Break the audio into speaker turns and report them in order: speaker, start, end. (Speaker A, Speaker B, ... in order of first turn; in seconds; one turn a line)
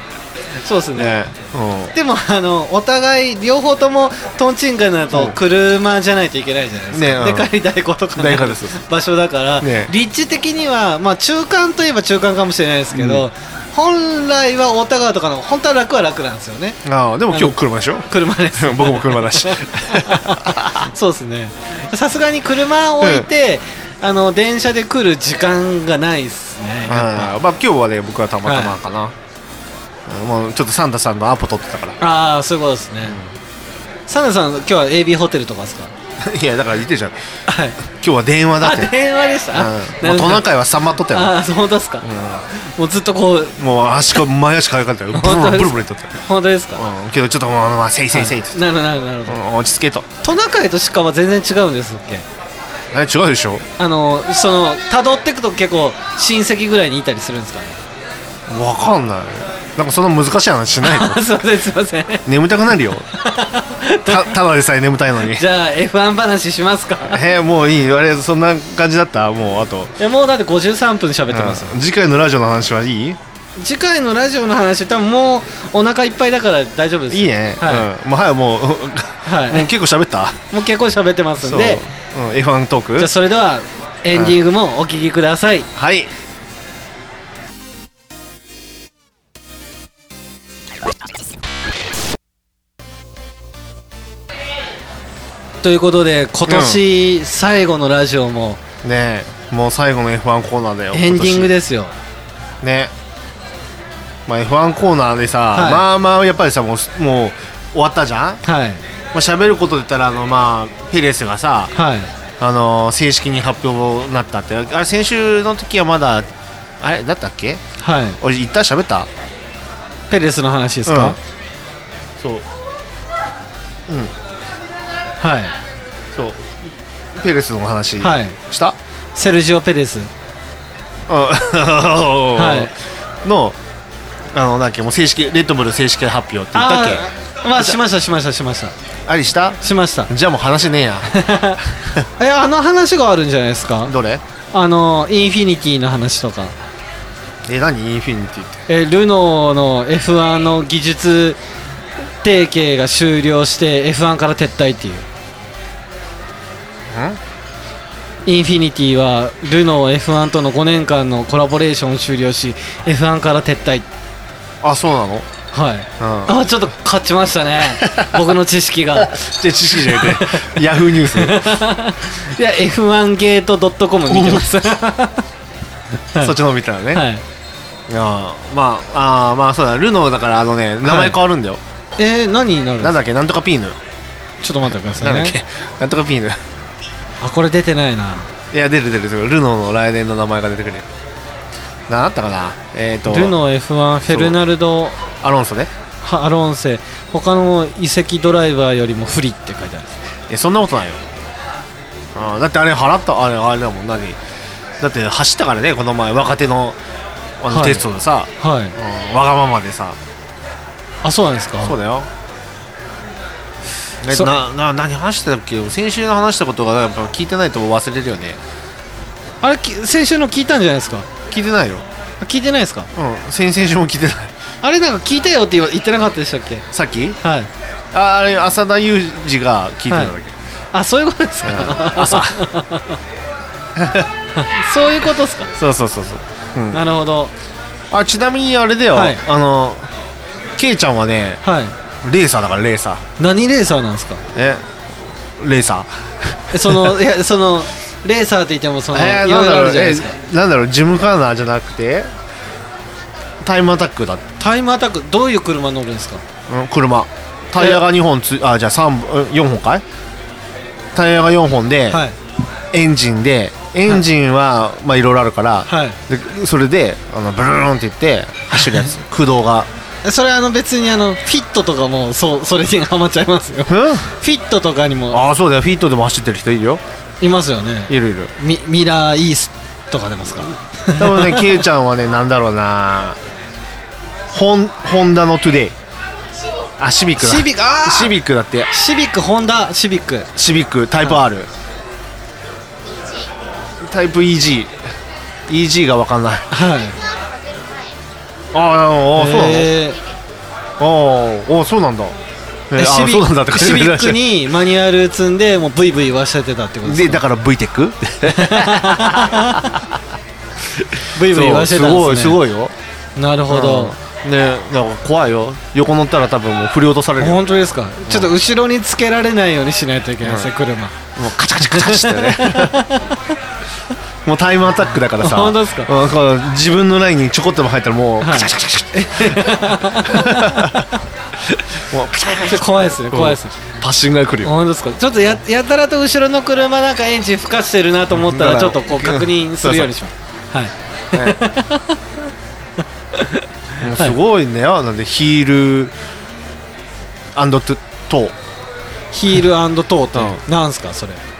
Speaker A: 0.6-1.2
Speaker B: 0.9-1.9
Speaker A: 1.9-16.8
Speaker B: 5.1-5.4
Speaker B: 6.9-7.5
Speaker B: 8.2-8.8
Speaker B: 9.6-9.9
Speaker B: 12.9-13.2
Speaker B: 16.8-20.9
Speaker A: 17.3-17.6
Speaker A: 18.1-27.4
Speaker B: 23.0-23.3
Speaker B: 26.9-29.1
Speaker A: 28.4-28.8
Speaker B: 30.1-32.0
Speaker A: 32.0-33.2
Speaker B: 33.0-33.3
Speaker A: 34.1-35.9
Speaker B: 36.2-37.2
Speaker A: 37.5-37.8
Speaker B: 37.9-38.9
Speaker A: 38.6-40.5
Speaker B: 39.5-41.3
Speaker A: 41.1-43.6
Speaker B: 42.0-42.5
Speaker B: 43.6-46.2
Speaker A: 45.1-46.8
Speaker B: 46.7-48.6
Speaker A: 48.1-49.4
Speaker B: 49.3-50.1
Speaker A: 50.2-52.2
Speaker B: 52.9-53.6
Speaker A: 53.8-57.8
Speaker B: 58.5-61.2
Speaker A: 60.8-62.3
Speaker B: 62.2-63.1
Speaker A: 63.2-64.3
Speaker B: 64.0-65.4
Speaker A: 65.2-67.2
Speaker B: 67.1-69.9
Speaker A: 70.0-71.8
Speaker B: 71.3-73.2
Speaker A: 73.6-77.9
Speaker B: 77.1-80.4
Speaker A: 79.2-79.7
Speaker A: 80.5-81.8
Speaker B: 81.4-83.1
Speaker A: 83.0-85.7
Speaker B: 85.7-86.1
Speaker A: 95.6-98.6
Speaker B: 96.5-96.8
Speaker B: 98.8-101.5
Speaker A: 100.9-101.9
Speaker B: 102.6-102.9
Speaker B: 104.3-108.4
Speaker A: 105.5-105.8
Speaker A: 108.4-108.8
Speaker B: 109.1-111.7
Speaker A: 111.7-112.1
Speaker B: 112.4-116.3
Speaker B: 116.8-117.6
Speaker A: 117.8-118.2
Speaker B: 118.2-119.1
Speaker A: 120.1-121.2
Speaker B: 120.8-121.2
Speaker B: 122.2-122.5
Speaker B: 123.9-124.1
Speaker A: 125.2-125.5
Speaker B: 126.1-126.5
Speaker B: 127.1-128.8
Speaker A: 128.0-128.4
Speaker A: 129.2-130.1
Speaker B: 131.1-132.7
Speaker A: 132.3-132.7
Speaker B: 133.2-133.6
Speaker B: 134.3-137.1
Speaker A: 136.5-138.7
Speaker B: 139.1-141.1
Speaker A: 139.6-140.1
Speaker A: 141.1-141.6
Speaker B: 141.7-142.0
Speaker A: 142.2-143.9
Speaker B: 143.8-144.2
Speaker A: 144.5-146.5
Speaker B: 147.4-148.6
Speaker A: 148.7-151.4
Speaker A: 152.2-155.1
Speaker B: 156.9-157.2
Speaker A: 158.2-163.9
Speaker B: 164.6-165.3
Speaker A: 165.5-175.2
Speaker B: 166.0-166.4
Speaker B: 167.7-168.3
Speaker B: 168.9-171.5
Speaker B: 174.1-174.4
Speaker B: 176.2-177.1
Speaker A: 176.9-177.2
Speaker B: 177.9-181.6
Speaker A: 180.8-181.2
Speaker A: 182.0-183.0
Speaker B: 182.8-183.8
Speaker A: 184.4-185.3
Speaker B: 184.9-186.4
Speaker A: 187.2-188.3
Speaker B: 188.5-190.9
Speaker B: 191.9-193.3
Speaker A: 193.1-195.0
Speaker B: 194.1-194.4
Speaker B: 195.2-195.7
Speaker A: 196.0-200.0
Speaker B: 200.3-201.0
Speaker B: 202.1-204.2
Speaker B: 204.8-206.8
Speaker B: 207.4-210.0
Speaker A: 207.5-207.8
Speaker A: 208.4-208.8
Speaker A: 211.0-211.8
Speaker B: 211.6-212.1
Speaker B: 214.0-218.4
Speaker A: 219.4-221.1
Speaker B: 221.2-221.8
Speaker A: 222.2-222.9
Speaker B: 222.9-224.3
Speaker A: 224.6-226.7
Speaker B: 226.7-227.2
Speaker A: 227.2-227.5
Speaker B: 227.9-230.3
Speaker A: 230.7-233.0
Speaker B: 231.4-232.4
Speaker B: 233.8-234.1
Speaker A: 234.3-235.5
Speaker B: 235.6-236.8
Speaker A: 236.7-237.3
Speaker B: 237.9-239.9
Speaker A: 238.9-239.2
Speaker B: 240.6-241.4
Speaker A: 241.4-241.7
Speaker B: 242.0-243.0
Speaker A: 243.2-244.2
Speaker B: 244.3-244.6
Speaker B: 245.4-246.9
Speaker A: 246.5-250.1
Speaker B: 248.9-252.1
Speaker B: 253.4-254.2
Speaker A: 254.4-256.2
Speaker B: 256.5-259.8
Speaker A: 257.6-257.8
Speaker B: 260.9-262.0
Speaker A: 261.9-262.1
Speaker B: 262.7-269.7
Speaker A: 265.7-266.0
Speaker A: 268.5-268.9
Speaker A: 270.0-275.2
Speaker B: 273.7-274.1
Speaker B: 275.1-276.8
Speaker A: 277.2-281.6
Speaker B: 277.9-278.3
Speaker B: 280.9-283.2
Speaker B: 284.3-285.7
Speaker B: 286.8-288.7
Speaker A: 287.2-288.2
Speaker A: 288.7-290.3
Speaker B: 290.4-291.5
Speaker B: 293.8-294.8
Speaker B: 295.5-296.5
Speaker A: 296.5-297.0
Speaker B: 298.5-299.7
Speaker A: 299.1-300.0
Speaker B: 300.8-302.1
Speaker B: 302.7-304.3
Speaker A: 302.8-307.2
Speaker B: 306.8-309.8
Speaker A: 308.2-309.8
Speaker B: 310.7-312.7
Speaker A: 311.1-312.4
Speaker A: 313.1-313.9
Speaker B: 313.5-317.4
Speaker A: 317.2-321.0
Speaker B: 318.1-318.3
Speaker B: 320.2-320.5
Speaker B: 321.1-322.8
Speaker A: 321.6-323.2
Speaker B: 324.2-330.9
Speaker A: 324.9-325.9
Speaker A: 328.2-330.9
Speaker B: 331.5-334.5
Speaker A: 332.4-333.6
Speaker A: 334.4-342.0
Speaker B: 338.1-339.9
Speaker B: 341.1-341.4
Speaker A: 343.1-344.1
Speaker B: 343.8-345.9
Speaker B: 347.3-348.3
Speaker A: 349.1-351.2
Speaker B: 350.1-350.4